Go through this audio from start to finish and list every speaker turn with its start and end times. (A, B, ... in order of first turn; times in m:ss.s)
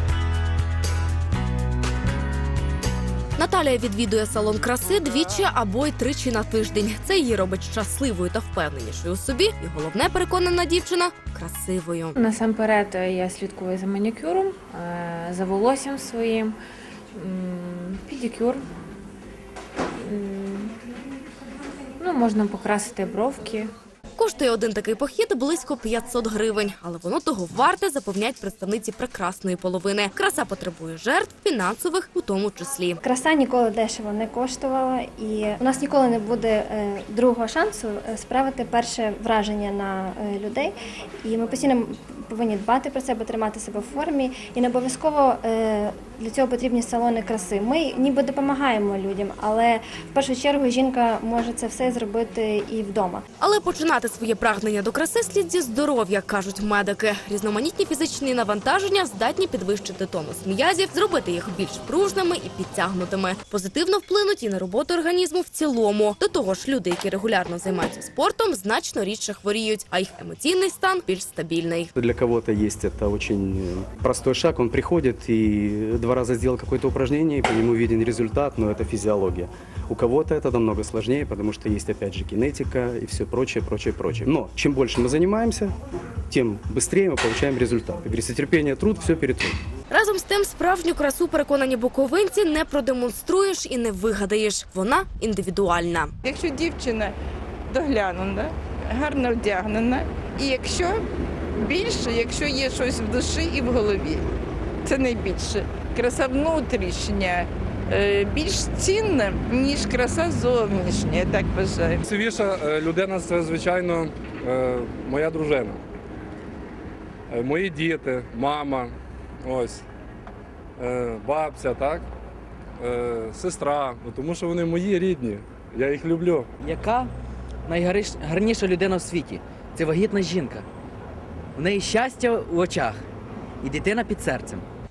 0:03.4-0:12.2 A
0:12.2-0:16.6 B
0:17.2-0:18.7 B
0:20.1-0:20.8 B
0:22.0-0:23.7 B
0:24.2-0:33.0 A
0:33.0-0:53.2 C
0:53.4-1:11.9 A
1:12.0-1:25.7 D
1:26.3-1:29.6 D
1:29.9-1:36.1 A
1:36.2-1:37.1 E
1:37.7-1:41.0 E
1:41.6-1:44.2 E
1:44.8-1:52.0 E
1:52.1-1:55.8 F
1:57.3-1:59.8 F
2:00.8-2:02.0 F
2:02.8-2:06.5 F
2:06.6-2:07.1 G
2:07.7-2:10.7 G
2:11.6-2:13.0 G
2:13.6-2:14.6 G